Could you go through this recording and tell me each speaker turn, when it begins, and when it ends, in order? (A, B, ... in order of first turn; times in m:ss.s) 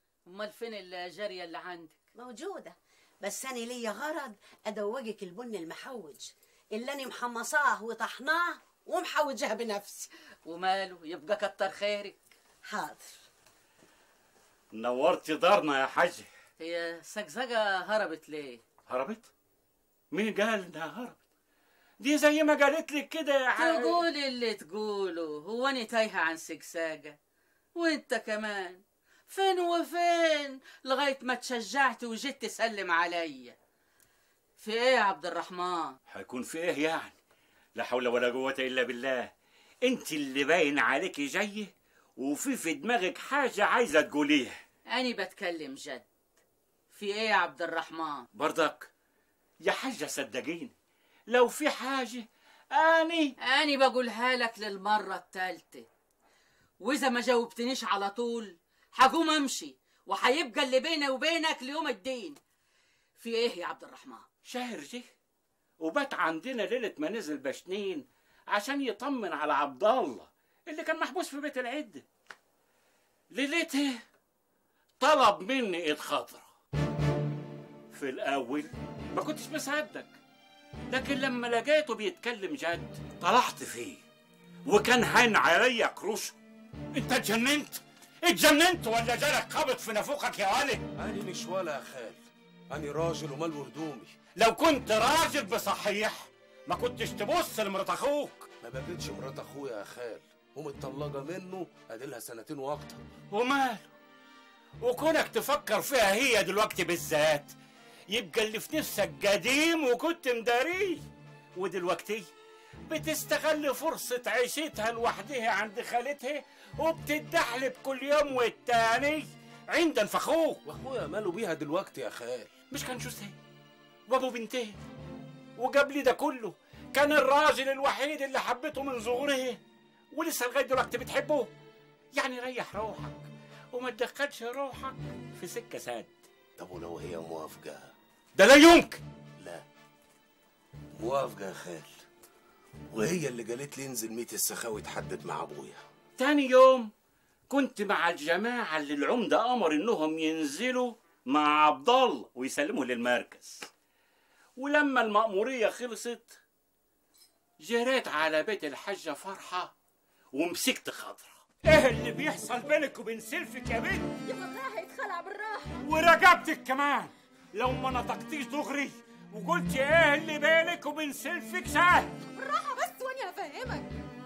0:00.3-0:02.0 A
0:02.1-0:10.1 B
0:10.4-0:12.2 A
0:12.6-0:13.2 B
0:14.8-0:16.3 C
0:16.6-0:18.6 A
0:18.9-0:19.2 C
0:20.1-0:21.2 C
0:22.0-0:24.0 C
0:23.6-0:27.2 A
0:27.8-0:33.6 A
0:34.6-0:36.0 A
0:36.1-0:37.2 C
0:37.8-0:39.3 C
0:39.8-0:44.6 C
0:44.9-0:46.0 A
0:46.9-0:48.3 A
0:48.3-0:48.9 C
0:49.6-0:50.7 C
0:51.3-0:53.3 C
0:53.4-0:55.9 A
0:56.8-1:02.4 A
1:03.2-1:04.2 A
1:04.4-1:05.0 C
1:05.8-1:12.0 C
1:13.3-1:14.0 C
1:15.0-1:16.5 C
1:17.9-1:20.2 C
1:20.9-1:24.0 C
1:24.6-1:26.3 C
1:26.9-1:30.8 C
1:31.0-1:34.1 D
1:34.4-1:38.5 C
1:38.6-1:43.0 D
1:43.3-1:43.8 C
1:44.8-1:47.5 C
1:48.1-1:51.0 C
1:51.6-1:52.3 C
1:52.9-2:00.6 C
2:00.6-2:02.5 D
2:02.7-2:03.3 C
2:04.1-2:04.8 C
2:05.6-2:09.6 C
2:10.1-2:11.5 C
2:12.2-2:16.1 C
2:16.6-2:17.9 D
2:18.3-2:19.0 C
2:19.4-2:19.6 D
2:21.0-2:21.9 D
2:22.9-2:25.8 D
2:26.2-2:26.9 C
2:27.5-2:33.6 C
2:34.6-2:36.4 C
2:37.6-2:39.7 C
2:40.3-2:44.1 C
2:44.2-2:45.9 E
2:45.8-2:52.1 C
2:52.3-2:53.9 E